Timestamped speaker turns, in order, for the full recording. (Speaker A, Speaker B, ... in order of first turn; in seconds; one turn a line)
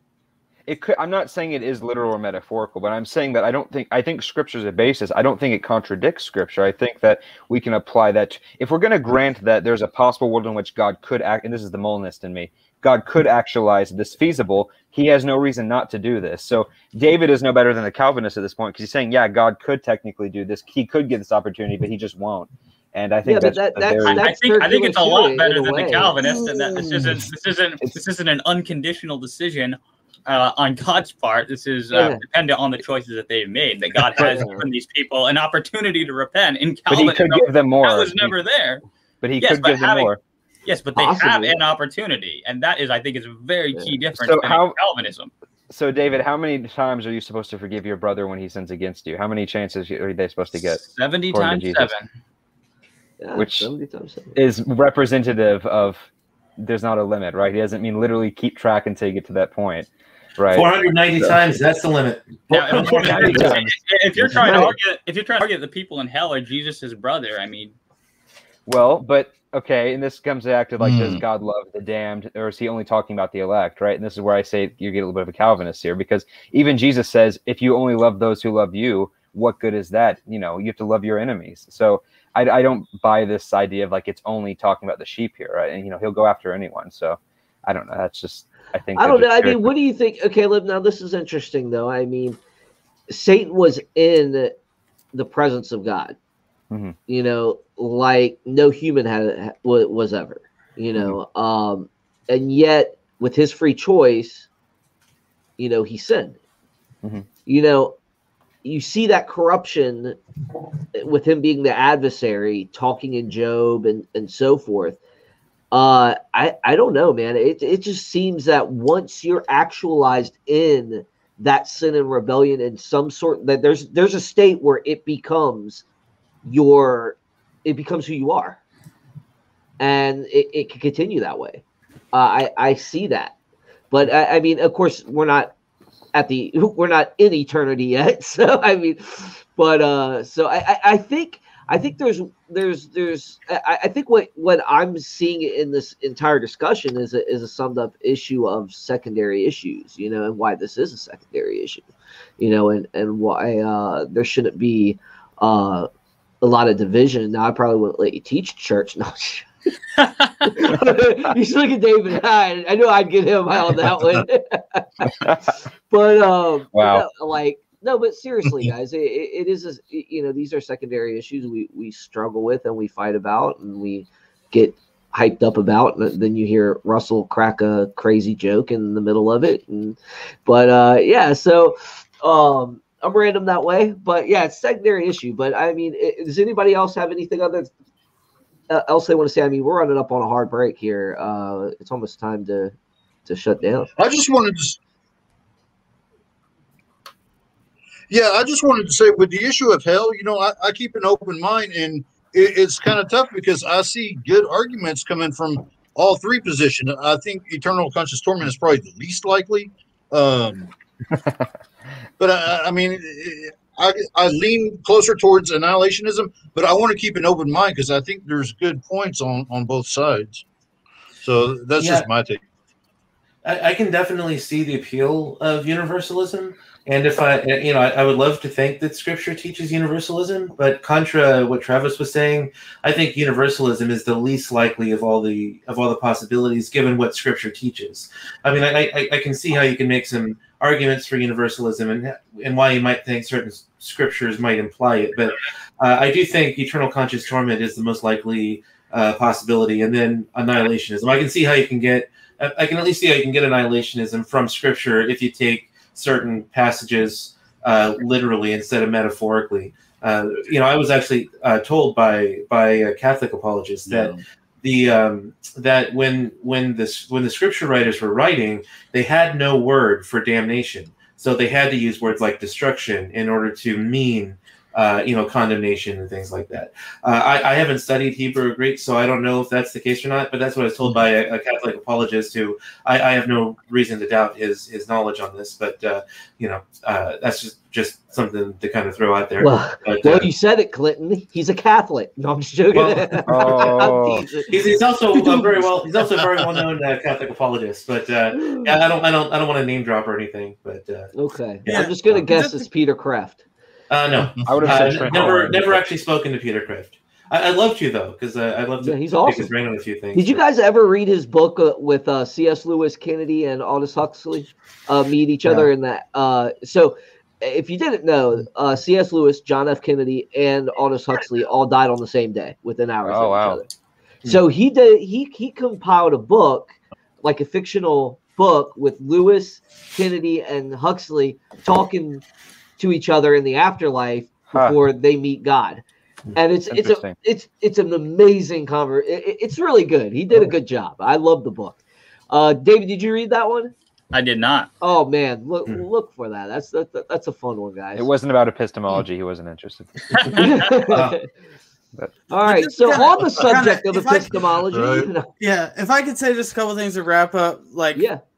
Speaker A: 0.7-24.3
Speaker B: 23.2-26.2
Speaker C: 24.0-38.8
Speaker B: 31.9-32.2
Speaker B: 34.2-34.7
Speaker A: 34.2-34.4
Speaker A: 36.9-38.3
Speaker A: 39.2-40.2
Speaker C: 39.4-40.1
Speaker C: 40.6-45.3
Speaker B: 41.0-41.6
Speaker A: 44.2-44.8
Speaker A: 45.7-51.9
Speaker C: 50.6-52.1
Speaker B: 53.2-54.4
Speaker A: 53.4-53.7
Speaker A: 54.4-56.1
Speaker A: 56.6-60.7
Speaker D: 60.5-63.6
Speaker C: 62.5-67.7
Speaker A: 62.5-64.8
Speaker A: 68.7-89.7
Speaker E: 70.8-71.2
Speaker B: 89.0-92.4
Speaker B: 93.1-94.6
Speaker B: 95.1-96.2
Speaker A: 96.7-97.0
Speaker B: 97.1-104.5
Speaker B: 105.6-106.4
Speaker B: 107.5-108.0
Speaker B: 108.6-110.2
Speaker B: 110.9-115.0
Speaker B: 115.7-125.8
Speaker B: 126.5-128.6
Speaker B: 129.8-133.3
Speaker B: 133.9-135.5
Speaker B: 136.2-151.9
Speaker B: 152.4-155.9
Speaker B: 156.4-159.5
Speaker C: 160.0-160.5
Speaker B: 160.4-165.3
Speaker A: 165.1-165.4
Speaker B: 165.9-187.7
Speaker A: 166.7-167.1
Speaker B: 188.7-192.8
Speaker B: 193.3-193.9
Speaker E: 194.0-194.8
Speaker E: 198.1-210.7
Speaker E: 212.2-220.4
Speaker E: 221.2-222.4
Speaker D: 221.8-222.1
Speaker D: 223.4-290.3
Speaker E: 263.9-264.2
Speaker B: 289.4-295.5
Speaker D: 292.7-293.7
Speaker A: 293.3-294.3
Speaker D: 294.5-301.1
Speaker B: 298.4-298.7
Speaker B: 301.1-303.4
Speaker F: 301.7-302.7
Speaker D: 303.9-310.4
Speaker E: 304.2-304.8
Speaker A: 304.4-305.8
Speaker B: 308.8-309.5
Speaker B: 310.1-323.7
Speaker A: 323.1-323.6
Speaker B: 324.3-332.2
Speaker B: 332.8-335.8
Speaker B: 336.4-341.8
Speaker A: 336.7-337.2
Speaker B: 342.3-343.7
Speaker C: 344.1-344.7
Speaker B: 344.8-348.1
Speaker A: 348.0-350.7
Speaker B: 350.3-351.3
Speaker D: 350.9-351.2
Speaker B: 352.3-355.3
Speaker F: 352.4-354.5
Speaker E: 354.7-355.1
Speaker F: 355.4-358.1
Speaker B: 357.9-358.2